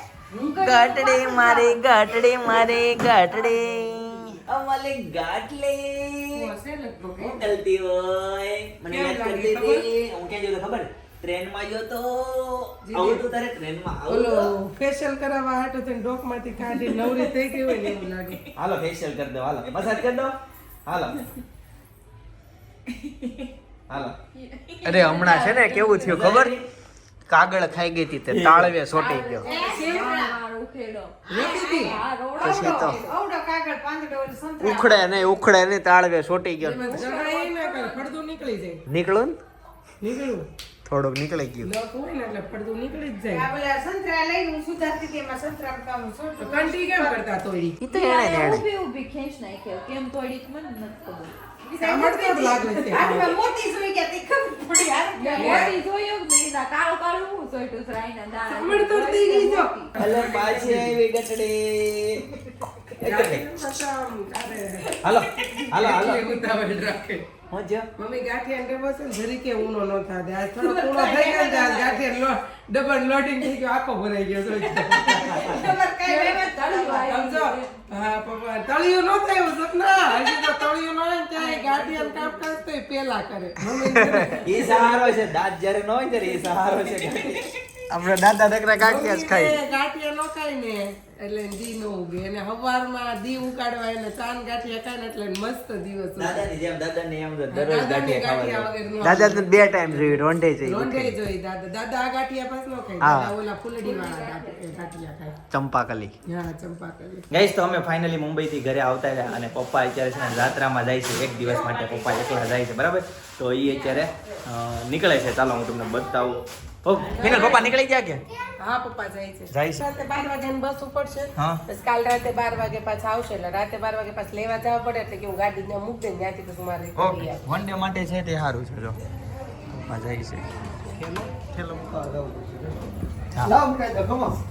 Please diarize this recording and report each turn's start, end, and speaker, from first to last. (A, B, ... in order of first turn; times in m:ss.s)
0:00.3-0:01.8 A
0:00.6-0:06.5 B
0:06.6-0:07.3 C
0:07.2-0:14.5 B
0:08.9-0:09.8 C
0:12.8-0:13.3 C
0:14.1-0:18.4 C
0:18.5-0:21.2 B
0:23.1-0:23.4 A
0:23.9-0:24.2 B
0:24.3-0:26.4 A
0:24.8-0:26.5 D
0:26.0-0:26.6 B
0:27.3-0:29.5 D
0:28.2-0:28.8 B
0:28.8-0:33.2 A
0:29.4-0:30.1 C
0:29.5-0:30.4 E
0:31.3-0:32.0 C
0:31.4-0:35.3 E
0:32.4-0:33.0 D
0:34.6-0:36.8 D
0:36.6-0:38.8 C
0:36.8-0:38.0 E
0:38.9-0:39.4 D
0:40.0-0:40.5 C
0:40.8-0:41.7 D
0:41.6-0:43.5 C
0:43.2-0:47.2 E
0:46.4-0:48.0 C
0:47.8-0:51.3 A
0:48.0-0:48.6 D
0:51.6-0:55.7 E
0:51.8-0:53.4 C
0:55.1-0:59.9 A
0:55.3-0:55.7 C
0:58.5-1:00.9 C
1:00.0-1:02.4 B
1:03.0-1:03.4 B
1:03.0-1:07.3 C
1:05.0-1:06.2 B
1:07.5-1:07.9 B
1:08.0-1:15.6 C
1:10.6-1:12.0 E
1:15.1-1:15.7 B
1:15.2-1:17.0 E
1:15.9-1:17.7 A
1:16.4-1:24.8 C
1:21.3-1:22.4 A
1:24.3-1:29.6 B
1:28.8-1:36.5 C
1:36.2-1:39.2 B
1:37.5-1:45.4 C
1:39.0-1:41.2 D
1:43.8-1:44.2 A
1:45.5-1:46.1 D
1:46.2-1:47.3 C
1:47.3-1:58.2 B
1:57.1-1:57.7 C
1:58.6-2:07.4 C
1:59.5-1:59.8 B
2:01.4-2:01.6 B
2:07.0-2:09.0 B
2:09.7-2:10.4 B
2:11.5-2:12.7 D
2:13.3-2:13.6 B
2:13.4-2:14.4 D